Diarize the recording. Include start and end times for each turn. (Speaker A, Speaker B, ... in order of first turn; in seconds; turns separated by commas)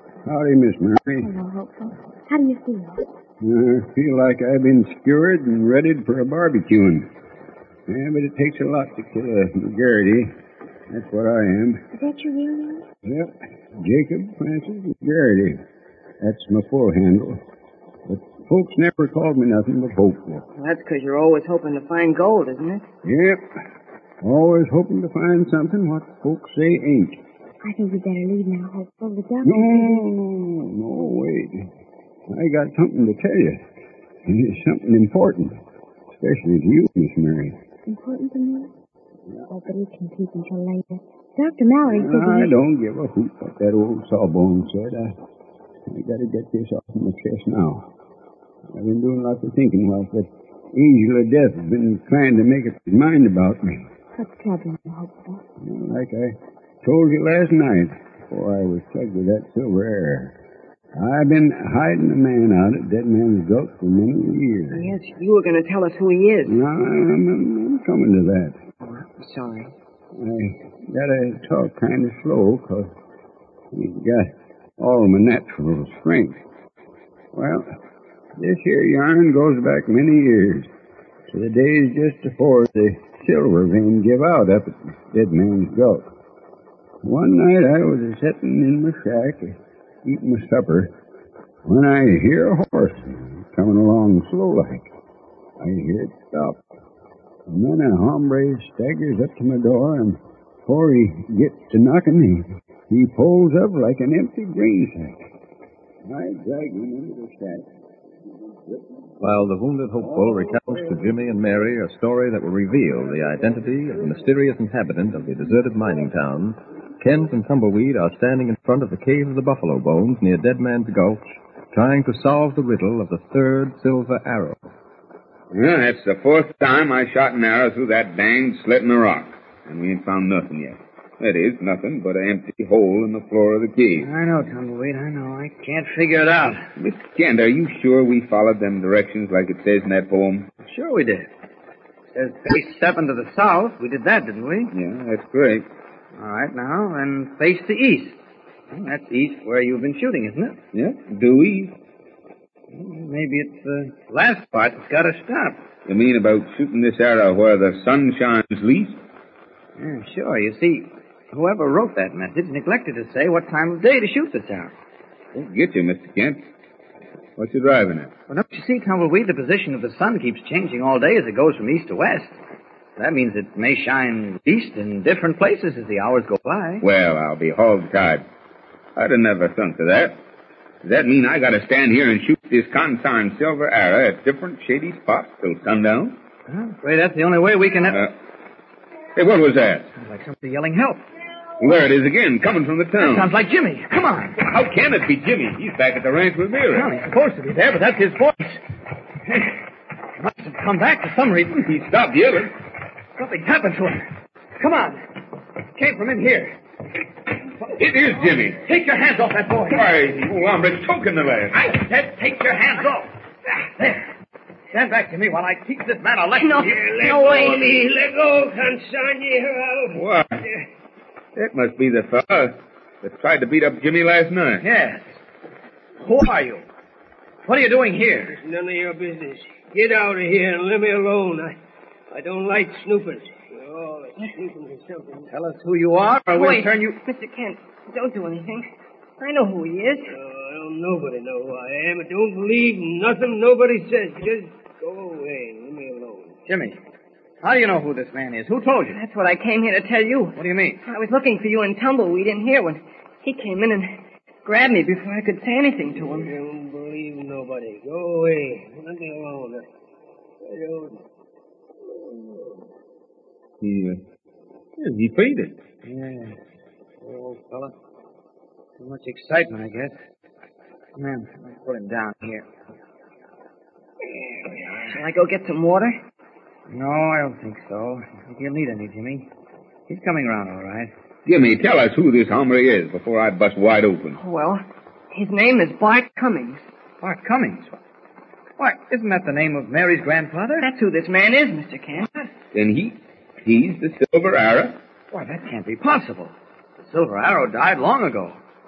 Speaker A: 0.3-1.3, Speaker B: 1.1-3.0, Speaker A: 3.4-7.1, Speaker A: 7.9-10.3, Speaker A: 10.9-11.8, Speaker B: 11.9-12.8, Speaker A: 13.1-15.6, Speaker A: 16.2-17.4, Speaker A: 18.1-20.4, Speaker C: 20.6-22.9, Speaker A: 23.0-23.4, Speaker A: 24.2-27.2, Speaker B: 27.6-30.1, Speaker A: 29.4-31.7, Speaker A: 32.3-33.6, Speaker A: 34.2-35.6, Speaker A: 36.2-37.5, Speaker B: 37.9-38.7, Speaker B: 39.5-42.6, Speaker A: 41.9-45.1, Speaker A: 45.9-47.9, Speaker A: 48.7-53.9, Speaker B: 54.2-55.4, Speaker A: 55.6-60.3, Speaker A: 61.0-64.9, Speaker C: 64.7-66.6, Speaker A: 66.5-68.6, Speaker C: 68.8-69.7, Speaker A: 70.2-72.9, Speaker A: 73.7-76.4, Speaker A: 77.3-77.7, Speaker A: 78.4-80.7, Speaker A: 81.3-86.1, Speaker A: 87.0-90.9, Speaker A: 91.7-94.9, Speaker A: 95.6-96.6, Speaker A: 97.5-105.3, Speaker A: 106.0-107.7, Speaker D: 109.2-124.7, Speaker E: 125.5-134.1, Speaker F: 134.0-136.6, Speaker E: 136.8-140.5, Speaker F: 140.6-141.3, Speaker F: 142.2-144.7, Speaker E: 144.7-145.7, Speaker F: 146.2-148.2, Speaker F: 148.7-150.6, Speaker E: 150.7-151.8, Speaker F: 152.7-155.6, Speaker E: 155.9-159.0, Speaker F: 159.8-164.7, Speaker E: 165.3-166.4, Speaker E: 167.4-168.1, Speaker F: 168.3-172.4, Speaker F: 173.0-176.8, Speaker E: 176.8-178.2, Speaker E: 179.0-180.2, Speaker E: 180.8-186.2, Speaker F: 186.5-188.1, Speaker E: 189.2-189.9, Speaker F: 190.0-191.0, Speaker E: 191.6-193.3, Speaker F: 193.0-194.4, Speaker E: 194.4-196.9, Speaker F: 196.7-198.6, Speaker F: 200.2-201.7, Speaker E: 201.7-202.5, Speaker F: 203.2-204.1, Speaker F: 204.6-205.0, Speaker F: 205.8-206.6, Speaker E: 207.8-208.6, Speaker F: 208.6-209.9, Speaker E: 209.7-211.6, Speaker F: 211.5-213.1, Speaker F: 213.8-214.0, Speaker F: 214.7-216.8, Speaker C: 216.4-217.7, Speaker G: 216.7-220.6, Speaker E: 219.9-220.4, Speaker E: 221.4-224.6, Speaker F: 224.6-225.1, Speaker F: 226.0-226.6, Speaker F: 227.5-228.3, Speaker G: 228.3-231.6, Speaker G: 232.1-235.3, Speaker F: 235.3-237.0, Speaker C: 236.3-238.7, Speaker C: 239.2-240.1, Speaker G: 240.1-246.4, Speaker F: 246.5-246.8, Speaker F: 247.4-249.0, Speaker C: 248.9-253.9, Speaker F: 250.4-250.8, Speaker C: 254.4-256.3, Speaker G: 256.0-259.6, Speaker G: 260.4-261.0, Speaker G: 261.9-262.6, Speaker E: 263.6-264.0, Speaker E: 264.8-265.6, Speaker F: 265.9-266.3, Speaker F: 267.0-267.7, Speaker F: 268.8-269.9, Speaker F: 271.0-272.4, Speaker C: 274.8-276.0, Speaker F: 276.7-279.3, Speaker F: 279.9-280.9, Speaker E: 281.3-284.2, Speaker C: 284.2-286.6, Speaker F: 287.0-287.8, Speaker F: 288.6-290.6, Speaker C: 290.6-292.3, Speaker E: 292.5-294.8, Speaker F: 295.1-298.4